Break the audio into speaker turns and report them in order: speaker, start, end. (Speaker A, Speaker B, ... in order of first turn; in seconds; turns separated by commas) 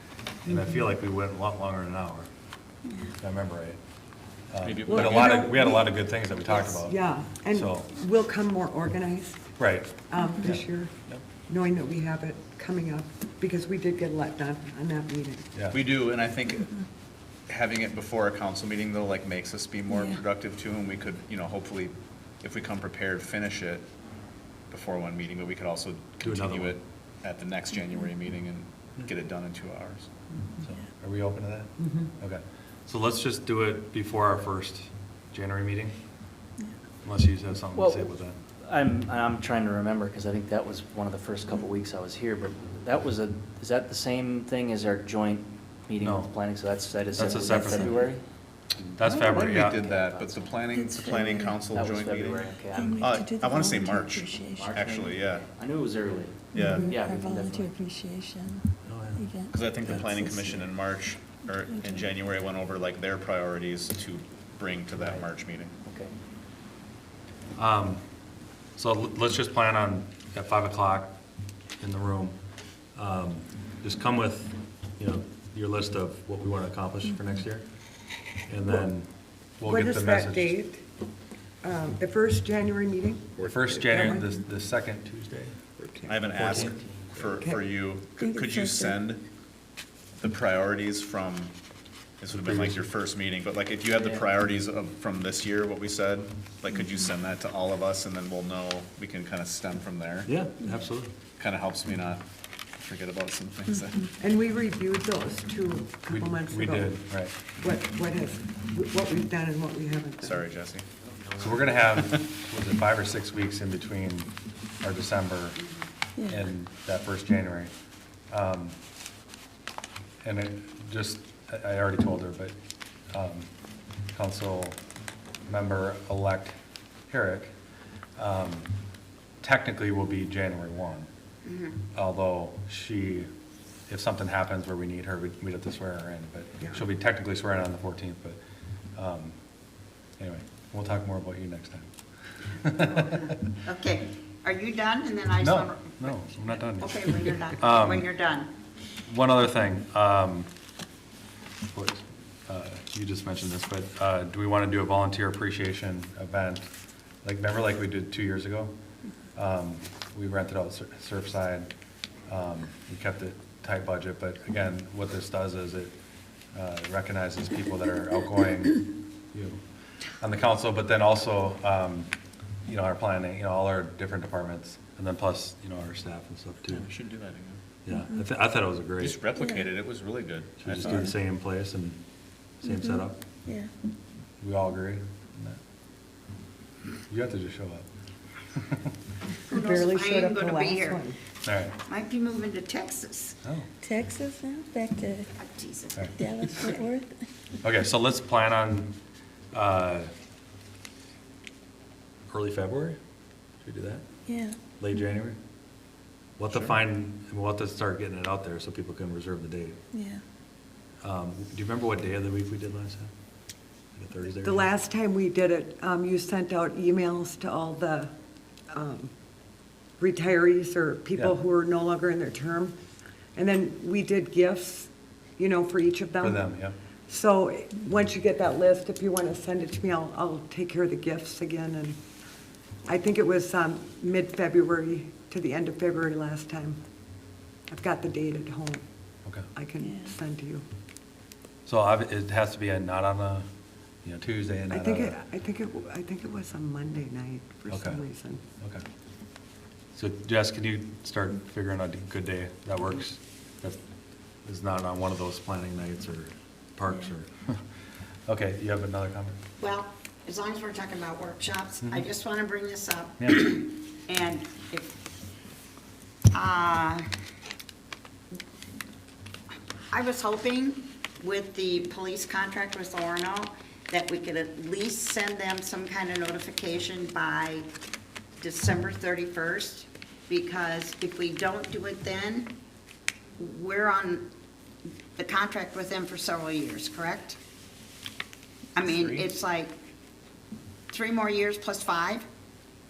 Speaker A: 0.4-2.3, Speaker B: 0.5-0.9, Speaker A: 3.2-3.8, Speaker A: 4.5-7.0, Speaker C: 4.6-5.4, Speaker B: 4.8-9.4, Speaker A: 7.5-7.9, Speaker A: 9.6-11.2, Speaker B: 10.1-10.9, Speaker B: 11.5-15.5, Speaker C: 15.7-16.7, Speaker C: 17.5-23.8, Speaker D: 19.9-20.2, Speaker C: 24.7-30.1, Speaker A: 26.2-26.8, Speaker D: 27.8-28.1, Speaker A: 30.6-36.0, Speaker B: 31.8-32.1, Speaker A: 37.0-38.4, Speaker E: 37.7-48.2, Speaker A: 46.0-46.3, Speaker A: 47.1-48.1, Speaker E: 48.7-50.7, Speaker A: 49.0-49.8, Speaker D: 49.0-49.4, Speaker C: 49.2-52.5, Speaker D: 50.7-51.7, Speaker E: 51.7-53.2, Speaker D: 52.7-54.8, Speaker C: 53.0-55.5, Speaker E: 54.5-57.8, Speaker D: 56.5-60.7, Speaker C: 56.6-56.9, Speaker B: 56.6-56.9, Speaker A: 58.9-59.2, Speaker C: 59.5-65.7, Speaker E: 59.8-60.1, Speaker D: 61.5-62.1, Speaker E: 64.9-66.1, Speaker A: 67.5-68.0, Speaker A: 68.8-71.1, Speaker A: 71.8-72.4, Speaker A: 73.0-77.7, Speaker A: 78.4-80.5, Speaker B: 79.6-80.8, Speaker B: 81.6-84.3, Speaker C: 83.4-83.8, Speaker A: 83.4-85.6, Speaker B: 85.9-86.2, Speaker C: 86.0-89.2, Speaker A: 86.3-86.7, Speaker E: 86.5-87.0, Speaker B: 87.3-87.6, Speaker D: 88.2-89.0, Speaker C: 90.2-91.5, Speaker C: 92.2-100.3, Speaker A: 92.3-92.9, Speaker E: 93.9-94.3, Speaker D: 96.7-97.1, Speaker A: 100.2-101.1, Speaker C: 101.4-102.2, Speaker C: 102.8-104.1, Speaker B: 104.2-107.0, Speaker A: 106.1-107.3, Speaker B: 107.5-110.5, Speaker C: 110.2-110.8, Speaker A: 111.4-115.6, Speaker D: 116.2-116.5, Speaker A: 116.3-117.7, Speaker A: 118.3-118.8, Speaker A: 120.2-122.5, Speaker A: 123.1-123.5, Speaker A: 124.1-124.8, Speaker A: 125.5-126.5, Speaker A: 127.1-127.5, Speaker A: 128.2-128.7, Speaker A: 129.4-131.1, Speaker F: 131.4-131.8, Speaker A: 131.9-133.3, Speaker A: 133.9-138.4, Speaker A: 139.0-139.3, Speaker A: 140.2-141.9, Speaker A: 142.6-143.3, Speaker F: 142.9-148.5, Speaker A: 145.4-148.1, Speaker A: 149.1-150.5, Speaker A: 151.7-156.7, Speaker A: 157.2-158.7, Speaker A: 159.3-161.7, Speaker A: 162.3-165.9, Speaker A: 166.5-169.6, Speaker A: 170.2-172.1, Speaker A: 172.7-176.9, Speaker C: 176.7-177.6, Speaker A: 177.8-179.2, Speaker D: 177.9-178.2, Speaker C: 179.0-181.1, Speaker D: 179.3-179.8, Speaker A: 180.6-182.0, Speaker D: 180.8-181.1, Speaker A: 182.6-183.2, Speaker D: 182.6-183.7, Speaker A: 184.4-185.6, Speaker A: 187.1-187.9, Speaker B: 189.5-191.2, Speaker F: 189.5-191.0, Speaker A: 191.4-191.8, Speaker F: 191.9-193.3, Speaker D: 193.8-195.3, Speaker F: 195.4-196.8, Speaker D: 196.2-197.1, Speaker A: 197.6-198.9, Speaker A: 199.5-200.1, Speaker A: 202.3-203.0, Speaker A: 203.6-204.1, Speaker D: 204.3-204.6, Speaker A: 204.8-205.4, Speaker A: 206.4-209.8, Speaker D: 209.9-210.2, Speaker A: 211.0-213.1, Speaker A: 213.9-214.7, Speaker B: 214.4-218.1, Speaker B: 218.7-219.1, Speaker B: 220.0-222.8, Speaker B: 223.3-226.4, Speaker A: 226.2-226.7, Speaker B: 227.1-232.0, Speaker B: 232.8-236.8, Speaker B: 237.7-238.8, Speaker B: 239.5-240.6, Speaker D: 239.8-240.1, Speaker A: 241.7-243.5, Speaker A: 244.0-245.2, Speaker B: 244.7-248.4, Speaker A: 247.7-248.0, Speaker A: 249.9-253.8, Speaker A: 254.4-257.6, Speaker A: 258.3-259.4, Speaker F: 259.6-264.9, Speaker A: 263.2-263.5, Speaker F: 266.3-267.1, Speaker F: 269.9-277.6, Speaker F: 278.4-282.5, Speaker F: 283.4-284.3, Speaker F: 285.1-287.4, Speaker F: 288.7-289.7, Speaker F: 290.9-292.2